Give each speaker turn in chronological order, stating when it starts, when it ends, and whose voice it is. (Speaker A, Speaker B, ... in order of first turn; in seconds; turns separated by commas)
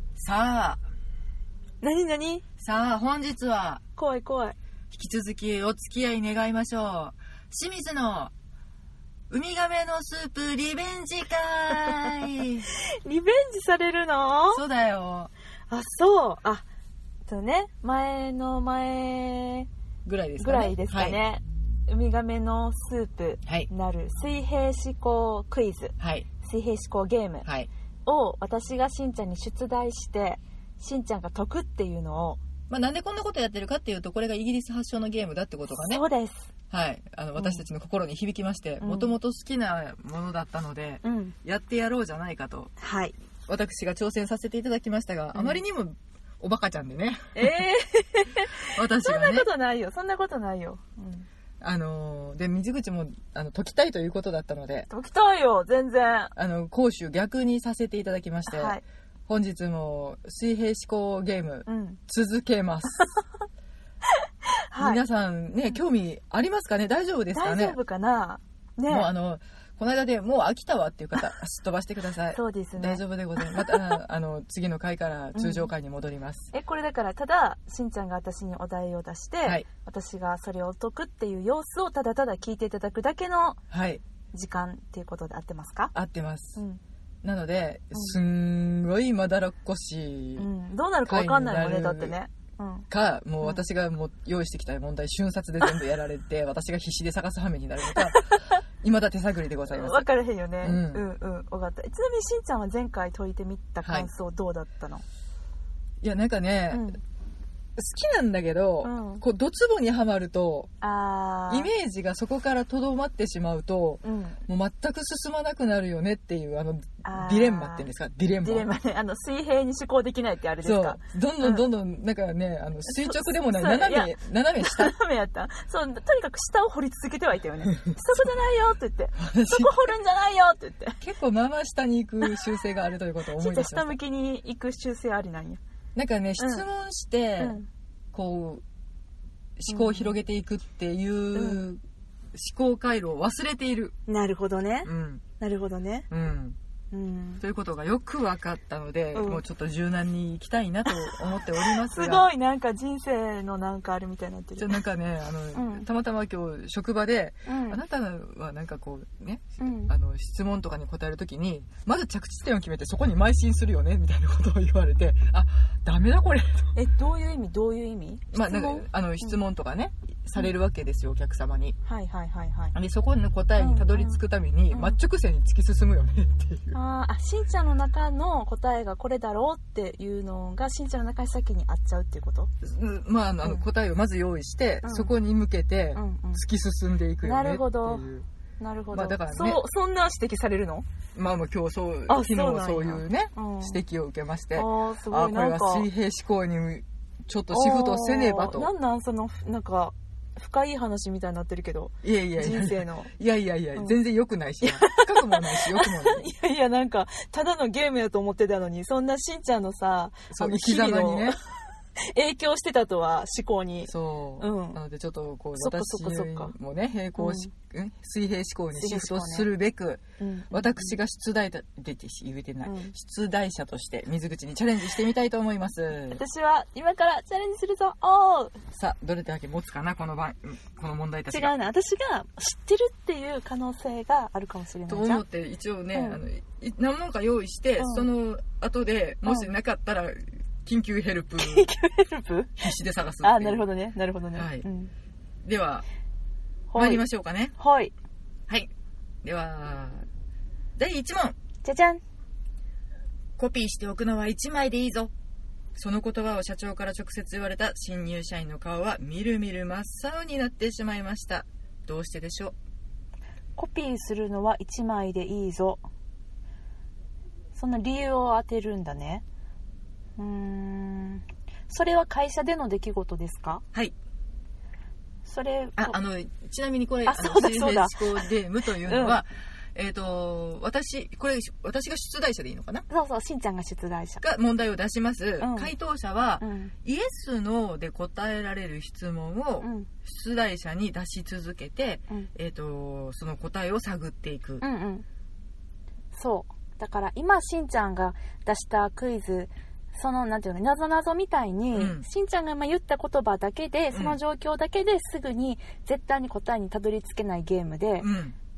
Speaker A: 0.1-0.8, Speaker B: 1.8-2.4, Speaker A: 2.6-3.8, Speaker B: 4.0-4.6, Speaker A: 4.9-8.3, Speaker A: 9.3-12.7, Speaker B: 12.7-14.6, Speaker A: 14.5-15.3, Speaker B: 15.7-16.6, Speaker B: 17.2-19.7, Speaker A: 20.1-21.2, Speaker B: 20.4-27.4, Speaker A: 26.0-26.2, Speaker B: 28.1-32.4, Speaker A: 32.7-36.0, Speaker B: 35.7-36.5, Speaker A: 36.7-42.7, Speaker B: 37.4-37.6, Speaker B: 38.8-39.1, Speaker B: 41.0-41.3, Speaker B: 42.8-43.1, Speaker A: 43.5-47.6, Speaker B: 45.3-45.6, Speaker B: 47.3-51.3, Speaker A: 48.7-49.5, Speaker A: 51.6-54.9, Speaker B: 54.9-56.3, Speaker A: 56.3-63.1, Speaker B: 58.5-58.8, Speaker B: 61.6-62.0, Speaker B: 64.7-65.0, Speaker A: 64.8-67.8, Speaker B: 67.3-69.1, Speaker A: 68.9-76.5, Speaker B: 72.3-73.9, Speaker B: 75.3-75.7, Speaker B: 76.5-83.6, Speaker A: 83.7-84.0, Speaker B: 84.3-85.9, Speaker A: 85.9-86.6, Speaker B: 86.5-86.8, Speaker A: 87.2-90.5, Speaker B: 90.4-92.9, Speaker A: 91.0-92.2, Speaker A: 92.9-98.3, Speaker B: 97.9-98.6, Speaker A: 98.8-100.0, Speaker B: 99.7-105.0, Speaker A: 100.6-101.0, Speaker A: 103.8-104.1, Speaker A: 106.0-106.9, Speaker B: 106.7-107.0, Speaker A: 107.8-110.7, Speaker B: 108.8-109.2, Speaker B: 110.8-111.7, Speaker A: 111.5-118.7, Speaker B: 114.0-114.4, Speaker B: 117.0-117.9, Speaker B: 118.4-121.6, Speaker A: 120.6-124.9, Speaker B: 122.9-131.0, Speaker A: 129.2-129.7, Speaker A: 131.0-133.9, Speaker B: 133.3-135.6, Speaker A: 135.9-137.6, Speaker B: 136.4-136.6, Speaker B: 137.4-137.7, Speaker A: 138.1-138.6, Speaker A: 139.6-141.8, Speaker B: 139.7-140.1, Speaker B: 141.3-141.6, Speaker A: 142.3-143.9, Speaker B: 144.1-146.1, Speaker A: 144.8-145.2, Speaker A: 146.1-146.6, Speaker B: 146.9-147.4, Speaker A: 147.4-152.3, Speaker B: 149.1-149.4, Speaker B: 150.9-154.8, Speaker A: 154.6-166.7, Speaker B: 155.5-155.8, Speaker B: 157.4-157.8, Speaker B: 159.6-159.9, Speaker B: 166.7-169.4, Speaker A: 168.3-171.8, Speaker B: 171.8-172.7, Speaker A: 172.7-176.8, Speaker B: 173.6-174.2, Speaker B: 174.7-175.0, Speaker B: 176.7-182.5, Speaker A: 182.6-188.3, Speaker B: 184.8-185.1, Speaker B: 185.9-186.4, Speaker B: 187.2-188.0, Speaker B: 188.6-190.9, Speaker A: 188.9-189.6, Speaker A: 191.1-198.7, Speaker B: 192.1-193.8, Speaker B: 194.5-195.9, Speaker B: 197.5-203.1, Speaker A: 202.0-206.2, Speaker B: 204.6-211.4, Speaker A: 210.3-211.3, Speaker B: 212.0-214.8, Speaker A: 213.9-226.2, Speaker B: 215.6-216.5, Speaker B: 217.2-217.5, Speaker B: 218.7-219.5, Speaker B: 220.2-220.9, Speaker B: 222.6-222.9, Speaker B: 226.1-228.6, Speaker A: 228.7-231.5, Speaker B: 231.3-235.2, Speaker A: 234.9-241.7, Speaker B: 235.9-236.2, Speaker B: 237.8-238.1, Speaker B: 241.4-242.7, Speaker A: 242.6-243.7, Speaker B: 243.2-244.9, Speaker A: 244.3-244.6, Speaker A: 245.4-245.8, Speaker B: 246.7-247.0, Speaker A: 246.8-247.5, Speaker B: 247.6-247.9, Speaker A: 249.2-250.0, Speaker A: 250.8-251.4, Speaker B: 251.6-252.0, Speaker A: 253.4-255.1, Speaker A: 255.7-262.5, Speaker B: 263.6-265.8, Speaker B: 267.5-269.2, Speaker B: 270.2-273.6, Speaker B: 275.2-276.0, Speaker A: 275.8-282.9, Speaker B: 277.1-279.2, Speaker B: 282.9-284.2, Speaker A: 284.2-294.6, Speaker B: 285.4-285.7, Speaker B: 286.4-286.7, Speaker B: 289.6-289.9, Speaker B: 294.6-295.1, Speaker B: 296.1-308.1, Speaker A: 301.7-302.0, Speaker A: 303.9-304.2, Speaker A: 308.0-308.4